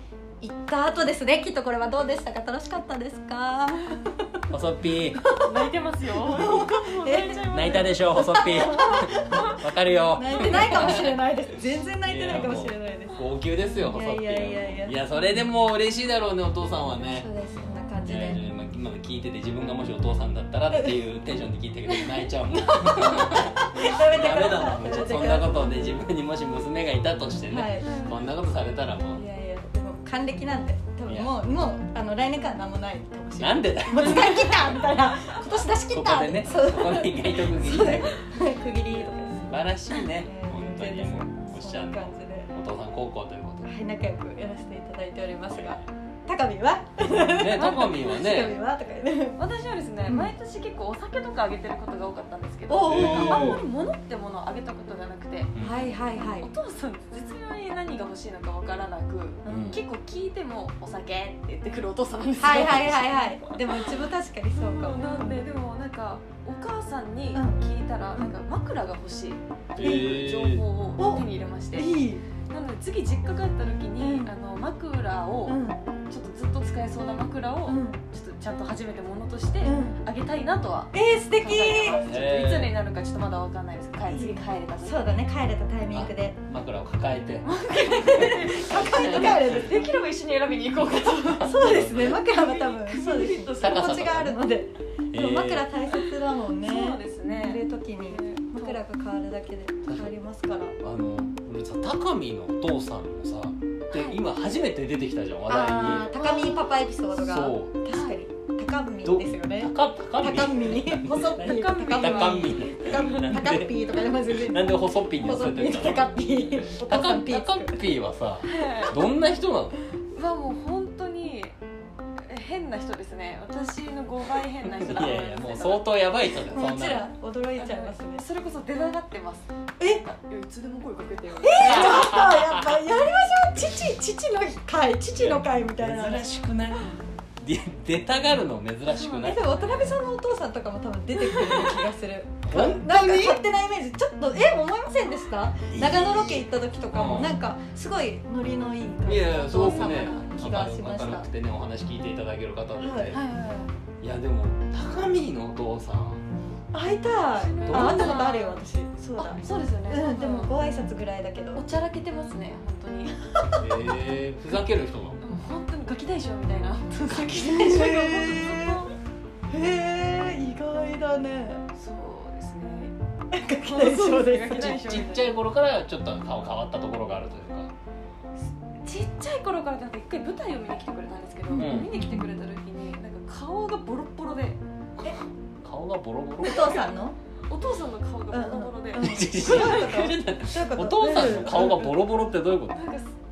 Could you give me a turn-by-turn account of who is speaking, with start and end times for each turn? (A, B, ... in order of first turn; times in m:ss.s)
0:00.4-0:04.3 A
0:04.5-0:05.3 B
0:05.2-0:05.6 A
0:05.3-0:09.0 C
0:06.3-0:09.6 A
0:07.5-0:11.2 B
0:10.2-0:13.2 A
0:12.0-0:17.3 B
0:13.8-0:15.0 A
0:17.1-0:18.4 A
0:18.0-0:29.2 B
0:22.8-0:25.5 A
0:27.5-0:28.0 A
0:27.8-0:28.2 C
0:29.1-0:39.5 A
0:31.1-0:31.3 B
0:33.4-0:34.9 B
0:35.9-0:38.2 B
0:39.2-0:43.7 B
0:40.2-0:42.5 A
0:43.6-0:49.4 A
0:45.5-0:45.8 B
0:47.3-0:48.6 B
0:49.4-0:55.6 C
0:52.7-0:53.6 A
0:52.8-0:53.6 B
0:55.5-0:55.8 B
0:55.6-0:56.5 A
0:56.2-1:03.9 C
0:59.4-0:59.8 A
0:59.4-0:59.8 B
1:02.4-1:05.4 A
1:02.5-1:02.9 B
1:04.6-1:11.9 C
1:07.3-1:07.6 A
1:09.8-1:10.6 B
1:09.8-1:10.1 A
1:11.0-1:12.2 A
1:12.5-1:25.2 C
1:14.0-1:14.3 A
1:15.4-1:15.8 A
1:17.7-1:18.0 A
1:19.6-1:20.0 A
1:20.9-1:22.0 A
1:22.0-1:22.7 B
1:24.1-1:26.4 A
1:25.9-1:29.7 B
1:27.4-1:34.0 C
1:28.0-1:29.9 A
1:31.4-1:40.8 A
1:31.4-1:32.2 B
1:33.6-1:34.4 B
1:35.1-1:35.7 B
1:36.6-1:38.8 C
1:39.8-1:40.1 B
1:40.8-1:46.3 B
1:43.9-1:44.2 C
1:45.5-1:57.8 A
1:46.2-1:46.6 C
1:47.1-1:47.7 B
1:49.0-1:59.8 B
1:51.4-1:53.3 C
1:58.4-1:59.0 C
2:00.1-2:01.6 C
2:02.2-2:05.8 C
2:04.6-2:07.1 B
2:06.5-2:08.2 A
2:07.5-2:12.0 C
2:11.4-2:16.2 A
2:11.6-2:12.8 B
2:15.2-2:19.9 B
2:19.0-2:19.8 C
2:19.1-2:31.3 A
2:21.3-2:21.7 C
2:22.4-2:23.4 B
2:25.7-2:27.4 B
2:29.0-2:33.2 B
2:29.5-2:30.4 C
2:32.8-2:33.2 A
2:33.1-2:33.7 C
2:34.0-2:36.2 B
2:36.7-2:41.6 A
2:37.4-2:38.6 C
2:37.7-2:38.2 B
2:39.2-2:40.5 C
2:41.5-2:43.2 C
2:43.6-2:45.2 B
2:45.2-2:48.9 C
2:47.4-2:48.8 A
2:49.5-2:51.6 A
2:51.7-2:52.9 C
2:53.3-2:54.7 A
2:53.5-2:55.3 C
2:54.5-2:57.7 B
2:58.8-3:04.6 C
3:01.5-3:02.3 A
3:01.6-3:01.9 B
3:05.0-3:06.8 B
3:06.4-3:07.2 A
3:06.4-3:06.8 C
3:07.5-3:10.0 C
3:08.3-3:12.0 A
3:09.0-3:12.8 B
3:12.7-3:13.1 C